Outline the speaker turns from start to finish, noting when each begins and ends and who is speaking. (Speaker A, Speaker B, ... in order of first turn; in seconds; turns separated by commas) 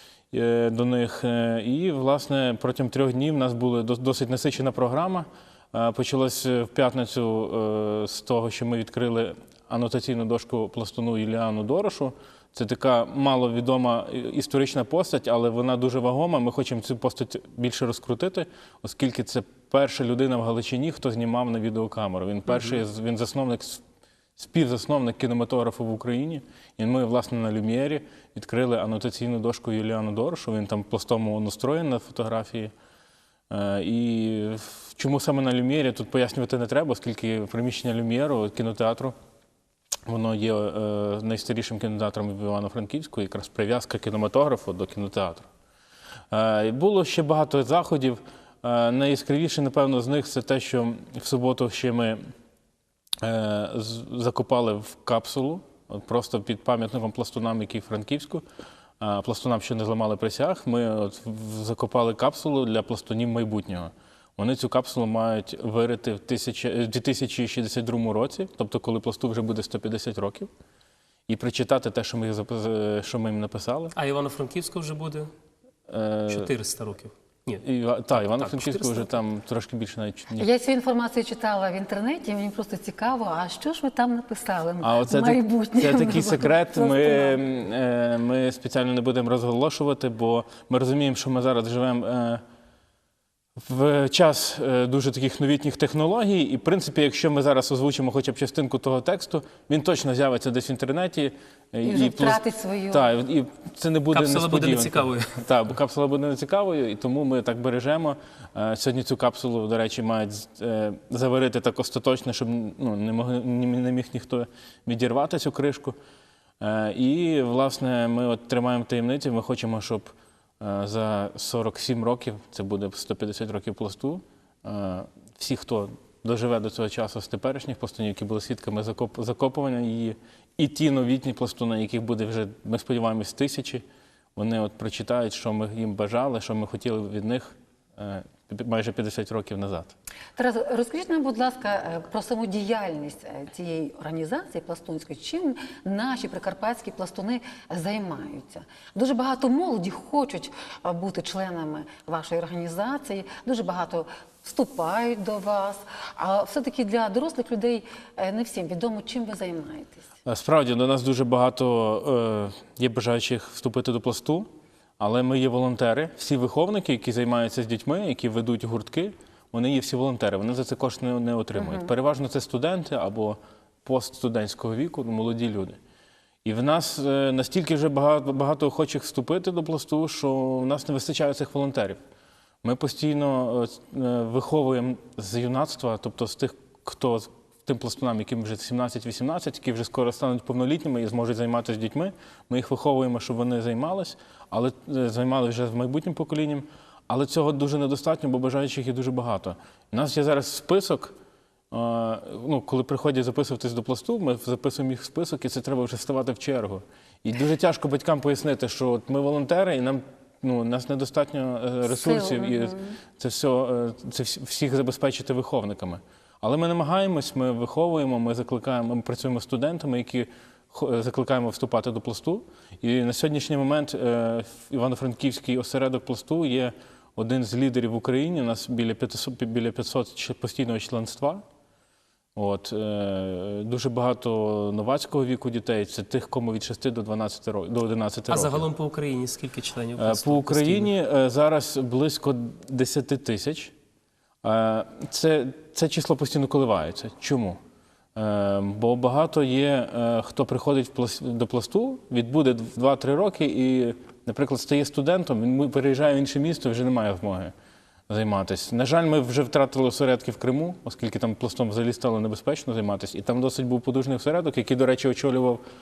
Speaker A: 0.3-23.8, Speaker B: 22.5-22.8, Speaker A: 24.4-32.7, Speaker A: 33.5-39.1, Speaker A: 40.1-45.5, Speaker A: 46.3-52.2, Speaker A: 53.2-58.4, Speaker A: 59.0-70.5, Speaker A: 71.3-73.9, Speaker B: 73.9-75.3, Speaker A: 75.9-76.5, Speaker B: 76.3-77.6, Speaker A: 77.6-80.5, Speaker B: 78.1-79.1, Speaker C: 80.4-87.4, Speaker A: 84.8-92.4, Speaker A: 93.6-116.0, Speaker C: 101.8-103.1, Speaker B: 104.1-105.4, Speaker A: 116.6-120.1, Speaker A: 120.6-133.8, Speaker A: 134.3-139.9, Speaker C: 140.3-160.0, Speaker A: 160.2-164.5, Speaker A: 165.0-175.8, Speaker C: 171.6-171.9, Speaker A: 176.4-182.0, Speaker A: 182.6-201.1, Speaker A: 201.7-231.4, Speaker C: 211.9-213.0, Speaker A: 232.3-238.7, Speaker B: 238.3-240.9, Speaker A: 240.0-243.7, Speaker A: 244.4-247.6, Speaker A: 248.1-257.5, Speaker A: 258.1-265.6